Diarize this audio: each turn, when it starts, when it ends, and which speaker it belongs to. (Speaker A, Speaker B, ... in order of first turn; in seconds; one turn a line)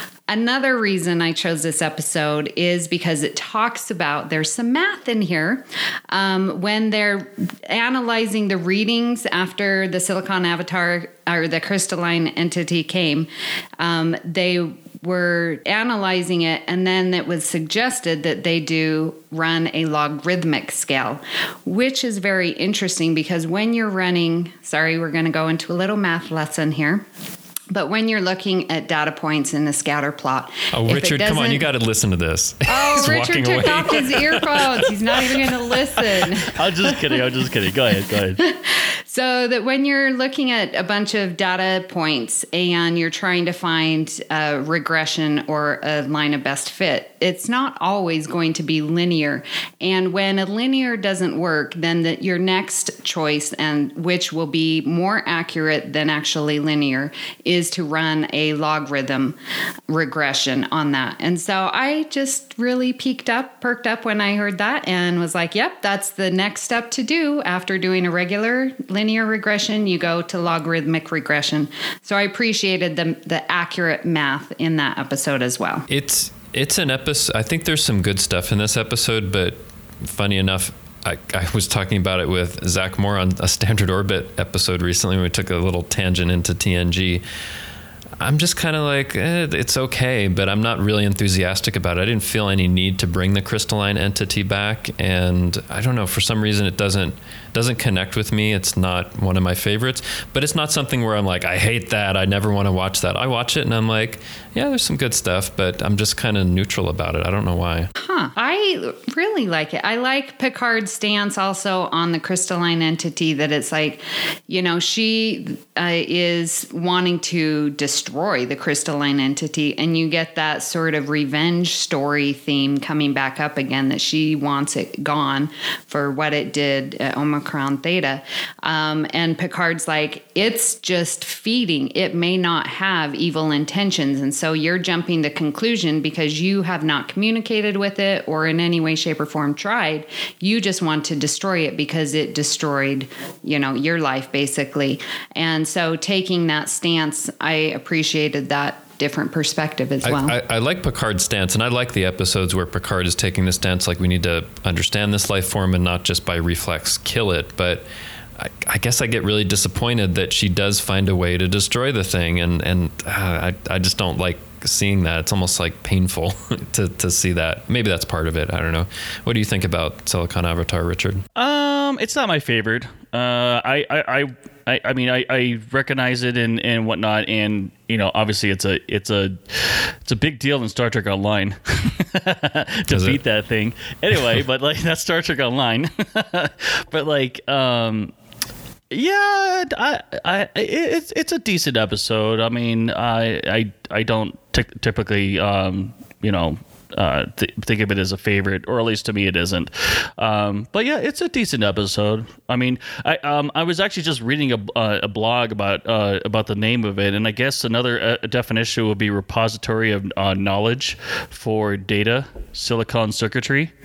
Speaker A: 0.3-27.0
Speaker A: 27.7-31.7
Speaker B: 30.7-36.3
Speaker A: 32.7-36.7
Speaker C: 36.5-38.4
Speaker A: 38.4-59.4
Speaker A: 59.9-75.9
Speaker B: 75.9-87.2
Speaker B: 88.2-107.9
Speaker A: 108.0-150.4
Speaker B: 150.0-157.9
Speaker B: 158.4-171.2
Speaker C: 171.4-188.1
Speaker B: 182.9-183.2
Speaker C: 188.9-213.7